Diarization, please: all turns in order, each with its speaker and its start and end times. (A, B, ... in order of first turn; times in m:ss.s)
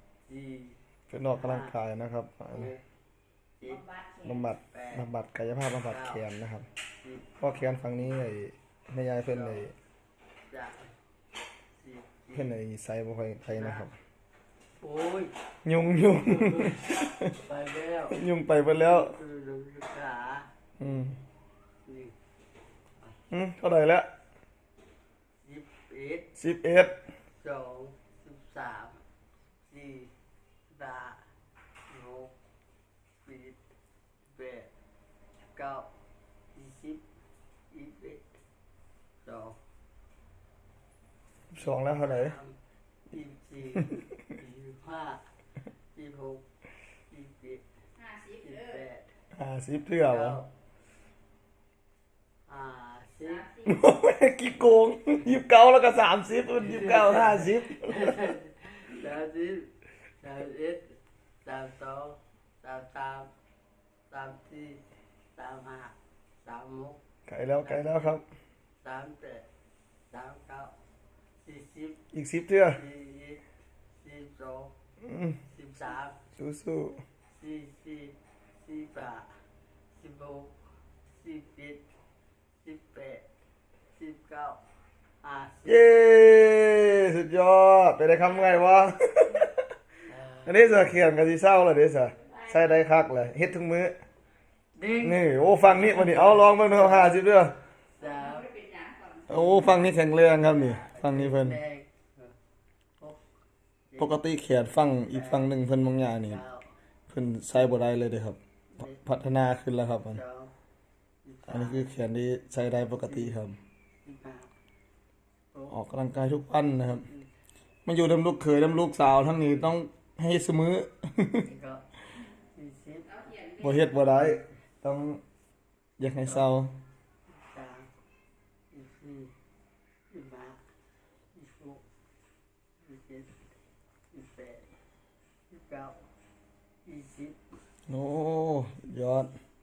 0:00.3-0:00.8 A
0:01.1-0:02.7 B
0:01.3-0:01.8 A
0:02.5-0:02.8 A
0:03.6-0:03.9 A
0:03.6-0:04.4 C
0:04.2-0:06.7 B
0:04.6-0:05.1 A
0:05.9-0:06.2 A
0:07.0-0:07.4 A
0:07.4-0:09.7 B
0:09.3-0:09.7 A
0:10.5-0:10.9 A
0:11.8-0:12.6 A
0:12.3-0:14.0 B
0:13.4-0:13.9 A
0:14.8-0:15.3 A
0:15.6-0:17.4 B
0:16.2-0:20.5 A
0:18.1-0:19.2 B
0:20.8-0:21.2 B
0:21.8-0:22.2 A
0:23.3-0:24.1 B
0:25.4-0:26.3 A
0:26.4-0:27.0 B
0:27.4-0:29.0 A
0:29.7-0:30.1 A
0:30.7-0:31.3 A
0:31.9-0:32.3 A
0:33.2-0:33.6 A
0:34.3-0:34.7 A
0:35.5-0:35.9 A
0:36.5-0:37.0 A
0:37.7-0:38.2 A
0:39.2-0:39.6 A
0:41.5-0:42.4 B
0:41.7-0:42.6 A
0:43.1-0:45.2 A
0:45.9-0:46.4 A
0:47.1-0:47.6 A
0:48.0-0:48.8 C
0:48.4-0:49.1 A
0:49.3-0:50.4 B
0:50.0-0:50.5 A
0:52.5-0:53.5 A
0:53.3-0:53.7 C
0:53.6-0:58.3 B
0:56.6-1:03.3 A
1:04.1-1:04.8 A
1:05.4-1:07.0 A
1:07.3-1:08.2 B
1:07.6-1:08.2 A
1:08.8-1:09.5 A
1:10.1-1:10.7 A
1:11.4-1:12.0 A
1:12.1-1:12.8 B
1:12.7-1:13.4 A
1:14.0-1:14.7 A
1:15.0-1:15.4 B
1:15.5-1:16.2 A
1:16.4-1:17.0 B
1:17.3-1:19.4 A
1:19.9-1:21.8 A
1:22.6-1:23.3 A
1:24.0-1:24.6 A
1:25.2-1:25.9 A
1:25.7-1:29.5 B
1:30.1-1:30.6 A
1:30.4-1:34.0 B
1:32.2-1:32.6 C
1:34.8-1:37.2 A
1:35.0-1:37.6 B
1:38.0-1:38.5 A
1:38.0-1:39.3 C
1:39.3-1:41.6 B
1:39.3-1:42.4 A
1:43.9-1:44.2 A
1:44.0-1:46.4 B
1:45.0-1:45.5 A
1:46.2-1:46.7 A
1:47.1-1:50.2 B
1:50.1-1:50.5 A
1:51.2-1:51.9 A
1:51.5-1:53.6 B
1:53.0-1:53.4 A
1:54.0-1:54.5 A
1:55.7-1:57.1 B
1:56.9-1:57.3 A
1:57.9-2:01.5 B
2:01.4-2:03.3 A
2:03.1-2:04.0 C
2:03.6-2:05.2 B
2:06.0-2:06.7 B
2:07.3-2:07.9 A
2:08.7-2:09.3 A
2:10.1-2:10.6 A
2:11.3-2:11.8 A
2:12.8-2:13.4 A
2:14.1-2:14.7 A
2:15.5-2:16.1 A
2:16.8-2:17.4 A
2:17.9-2:19.3 B